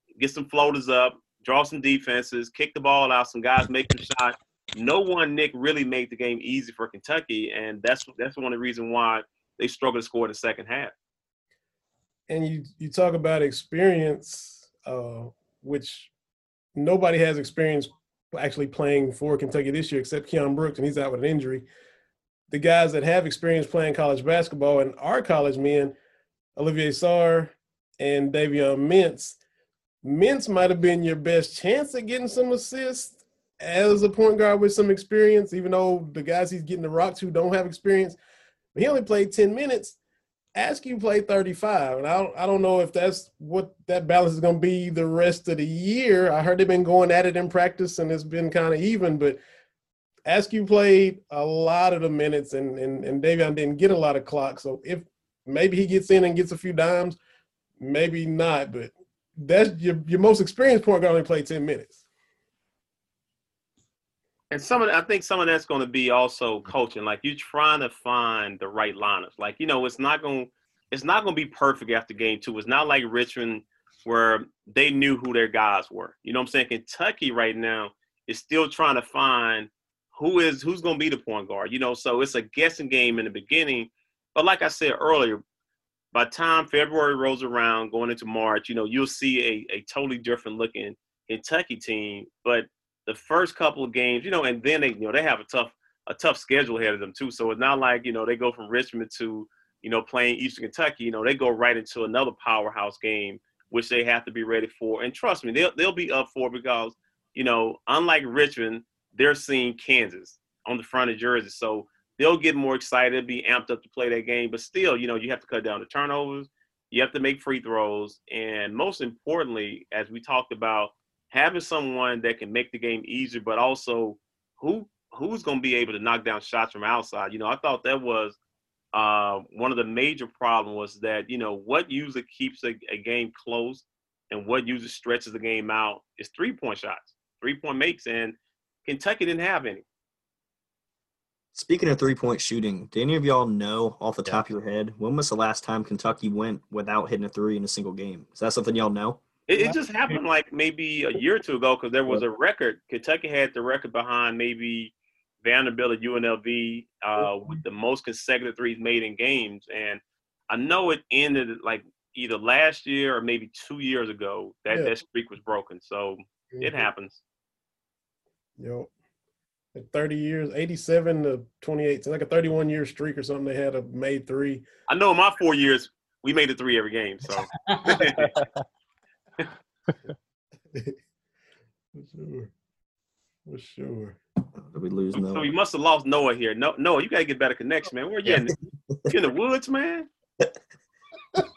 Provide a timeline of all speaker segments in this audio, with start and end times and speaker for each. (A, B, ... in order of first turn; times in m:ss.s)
0:00.2-0:10.9 A
0:12.3-0:16.1 B
0:16.8-0:21.6 B
0:22.5-0:25.9 B
0:26.6-0:29.4 B
0:30.0-0:38.2 B
0:38.7-0:40.0 B
0:40.5-0:49.4 B
0:50.2-0:57.2 B
0:57.8-1:02.0 B
1:04.5-1:25.4 A
1:26.1-2:08.4 A
2:08.9-2:19.8 A
2:21.5-2:29.2 C
2:29.5-2:34.9 A
2:29.6-2:30.2 B
2:35.4-2:47.2 A
2:46.5-2:46.8 B
2:48.6-2:48.9 B
2:49.7-2:54.6 B
2:54.9-2:58.4 A
2:57.6-2:58.1 B
3:02.0-3:02.5 B
3:03.4-3:04.2 B
3:04.6-3:05.5 C
3:05.2-3:08.5 A
3:09.1-3:10.1 A